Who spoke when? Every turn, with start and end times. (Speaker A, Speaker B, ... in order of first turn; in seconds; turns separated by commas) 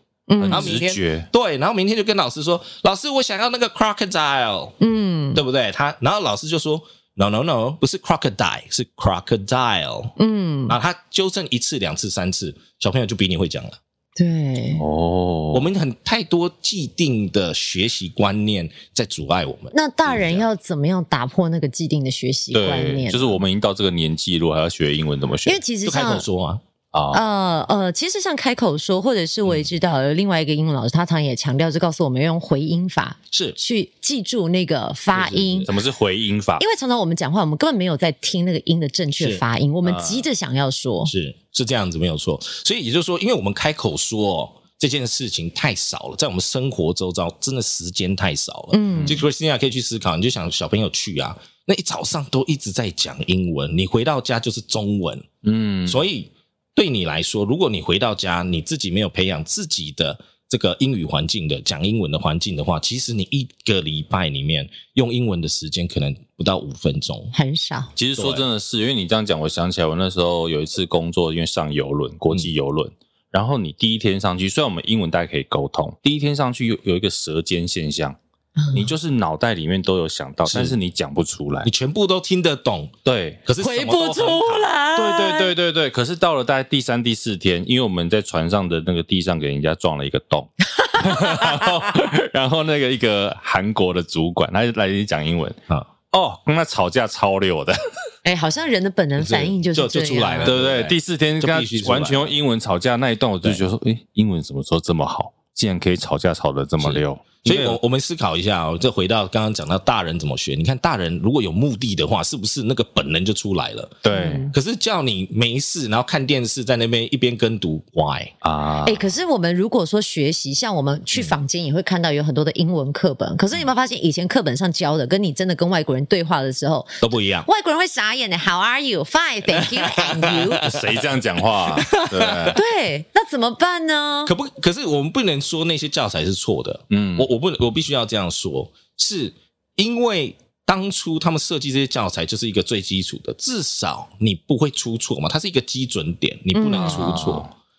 Speaker A: 0.3-1.0, Speaker B: 0.4-1.3, Speaker C: 0.5-4.7, Speaker A: 4.8-5.4, Speaker C: 5.3-10.1, Speaker A: 10.2-10.8, Speaker C: 10.7-13.8, Speaker A: 14.2-14.8, Speaker B: 14.8-15.7, Speaker C: 15.5-20.4, Speaker A: 19.7-23.4, Speaker B: 22.5-25.6, Speaker A: 25.4-26.2, Speaker C: 25.9-26.6, Speaker B: 26.9-27.2, Speaker A: 27.1-35.7, Speaker C: 33.3-33.6, Speaker C: 35.1-35.7, Speaker B: 35.6-36.6, Speaker A: 36.6-41.1, Speaker C: 39.2-39.4, Speaker B: 39.8-40.2, Speaker C: 41.1-55.3, Speaker A: 48.7-49.2, Speaker B: 48.9-49.2, Speaker B: 55.4-56.0, Speaker C: 55.9-67.3, Speaker A: 67.3-67.9, Speaker B: 68.0-78.2, Speaker C: 68.1-68.4, Speaker B: 78.7-81.7, Speaker C: 80.5-80.8, Speaker C: 81.6-82.9, Speaker B: 83.0-83.4, Speaker C: 83.4-84.7, Speaker A: 83.6-85.5, Speaker B: 85.0-95.6, Speaker A: 90.8-91.8, Speaker B: 96.1-97.8, Speaker A: 98.2-100.5, Speaker C: 99.2-102.3, Speaker B: 100.4-107.8, Speaker C: 106.8-118.3, Speaker B: 114.0-114.5, Speaker A: 114.1-114.5, Speaker B: 118.4-119.1, Speaker A: 118.8-130.7, Speaker C: 127.0-127.5, Speaker C: 129.5-131.0, Speaker B: 130.5-132.6, Speaker C: 131.7-132.6, Speaker A: 132.5-134.3, Speaker C: 134.2-147.5, Speaker B: 136.9-137.3, Speaker A: 146.5-147.2, Speaker B: 146.7-147.5